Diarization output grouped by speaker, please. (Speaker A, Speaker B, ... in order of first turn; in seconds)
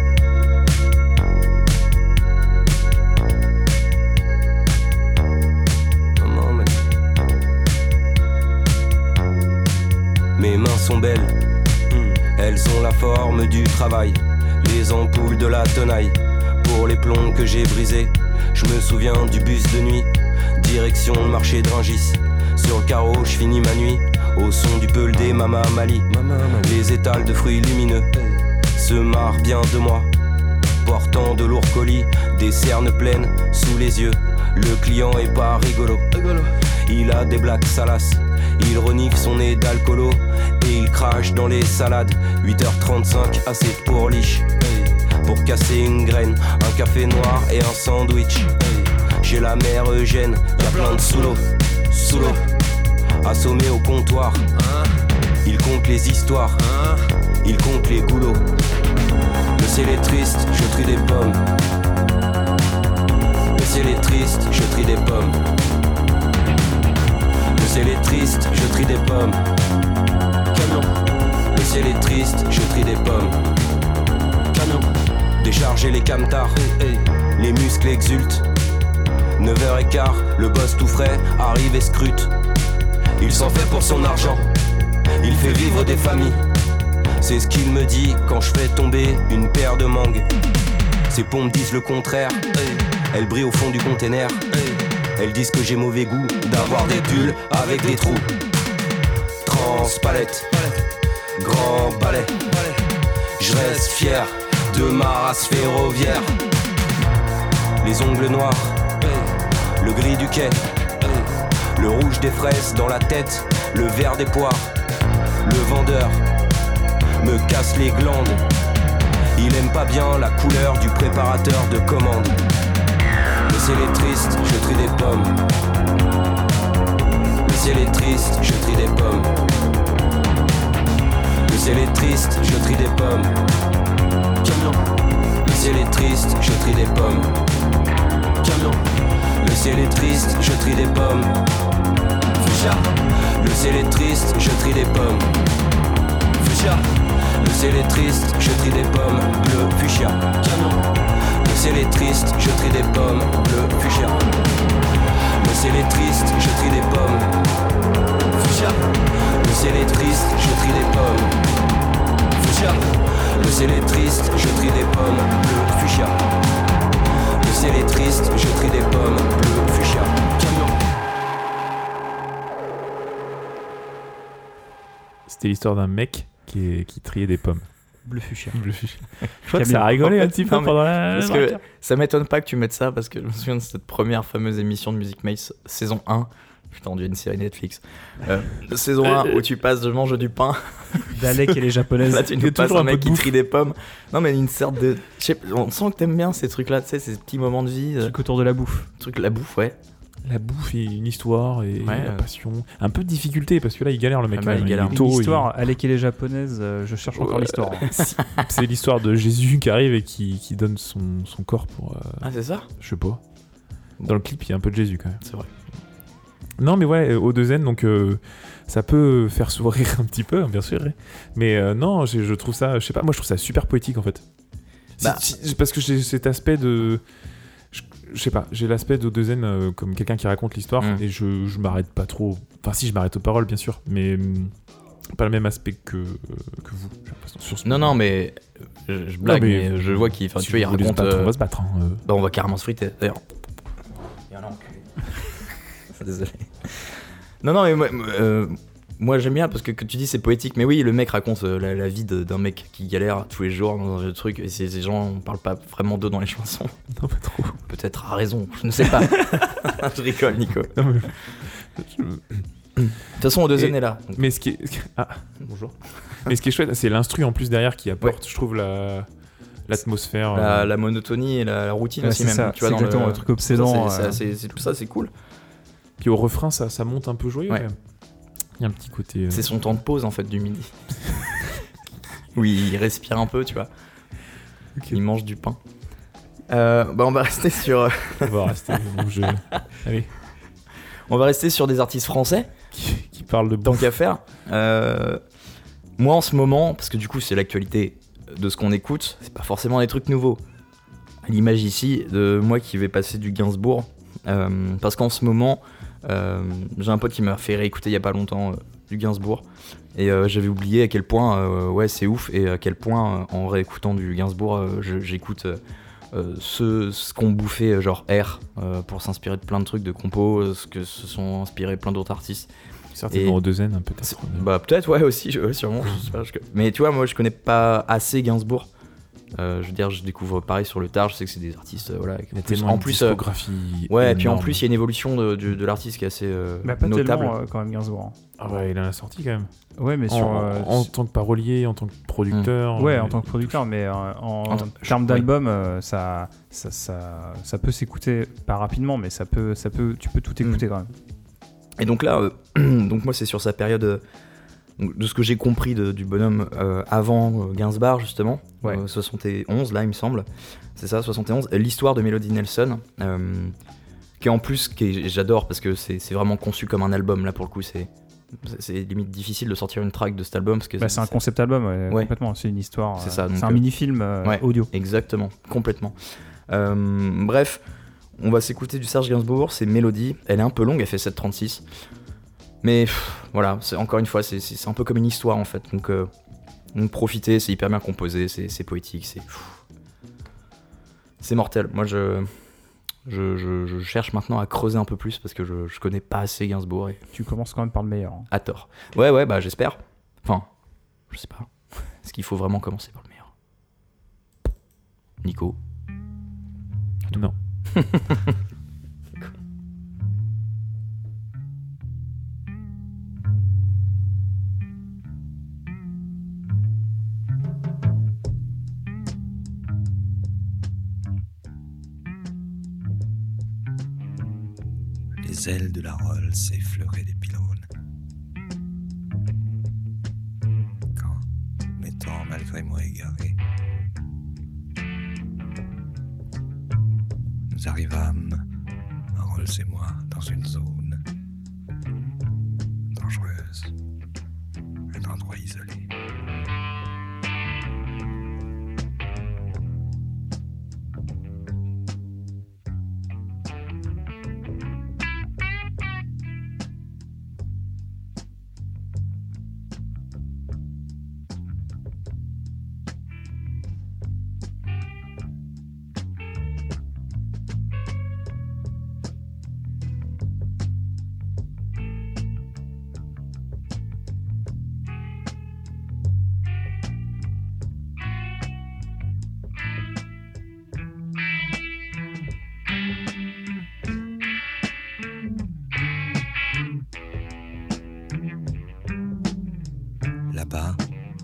Speaker A: 6.2-6.7, 10.4-11.3, 11.9-28.1, 28.8-30.1, 30.8-36.0, 36.9-44.5, 45.2-48.5, 49.2-52.4, 53.2-54.4, 55.4-56.6, 57.4-58.4, 59.6-61.4, 63.5-65.4, 67.6-69.4, 70.5-70.9, 71.5-73.4, 75.4-76.6, 77.4-78.4, 79.4-82.3, 83.2-84.4, 85.2-86.4, 87.2-90.2, 91.1-92.4, 93.1-94.4, 95.2-98.2, 99.5-100.5, 101.4-102.3, 103.4-106.3, 107.8-108.9, 109.8-111.2, 111.8-114.7, 115.4-116.2, 117.2-118.4, 119.3-122.3, 123.5-125.3, 127.4-129.3, 131.5-133.3, 134.4-134.7, 135.4-137.3, 138.4-138.8, 139.4-141.3, 142.4-145.3, 146.4-146.8, 147.4-150.7, 151.4-154.2, 155.4-157.3, 158.4-158.8, 159.4-161.3, 162.4-166.1, 167.4-170.8
Speaker B: 175.3-177.7, 178.5-181.6, 192.3-193.3, 200.2-205.5, 207.2-213.2, 214.0-215.2, 216.6-224.2, 225.0-227.0, 227.7-234.5, 235.1-238.0, 239.2-242.0, 256.9-257.6, 258.9-259.6, 260.7-262.5, 263.5-269.1, 269.6-270.7, 276.0-277.8, 278.6-279.5, 288.2-290.1, 292.7-293.9, 322.9-324.4, 332.3-334.6, 338.4-339.5, 340.1-343.6
Speaker C: 178.1-178.6, 179.5-180.0, 191.2-192.3, 198.0-198.9, 204.9-207.9, 272.0-274.2, 336.6-338.2, 339.8-340.9, 342.8-350.9, 370.8-374.7, 397.1-398.3
Speaker D: 180.2-191.3, 192.0-198.1, 199.0-199.8, 201.8-202.2, 204.3-204.9, 207.9-208.4, 212.2-212.7, 215.2-215.5, 225.0-225.2, 237.6-241.3, 242.0-243.2, 244.3-244.8, 245.9-256.7, 257.7-260.8, 262.8-264.2, 270.3-275.1, 279.3-281.1, 282.3-283.7, 284.9-285.6, 286.5-288.5, 291.1-292.5, 293.6-295.2, 296.0-300.4, 301.2-315.6, 316.1-322.5, 323.1-323.4, 324.0-328.7, 329.3-333.2, 333.9-337.3, 344.5-345.2, 351.8-354.0, 354.8-363.5, 364.2-371.2, 373.0-373.6, 374.2-375.9, 376.5-377.6, 378.2-381.6, 382.6-386.1, 386.7-389.6, 391.2-392.3, 393.1-397.0, 398.3-400.5, 401.1-403.3, 405.2-405.6, 407.7-408.3
Speaker E: 425.2-427.6, 430.9-433.4, 437.5-438.4, 439.1-441.0, 442.9-443.7, 444.9-445.9, 490.3-490.8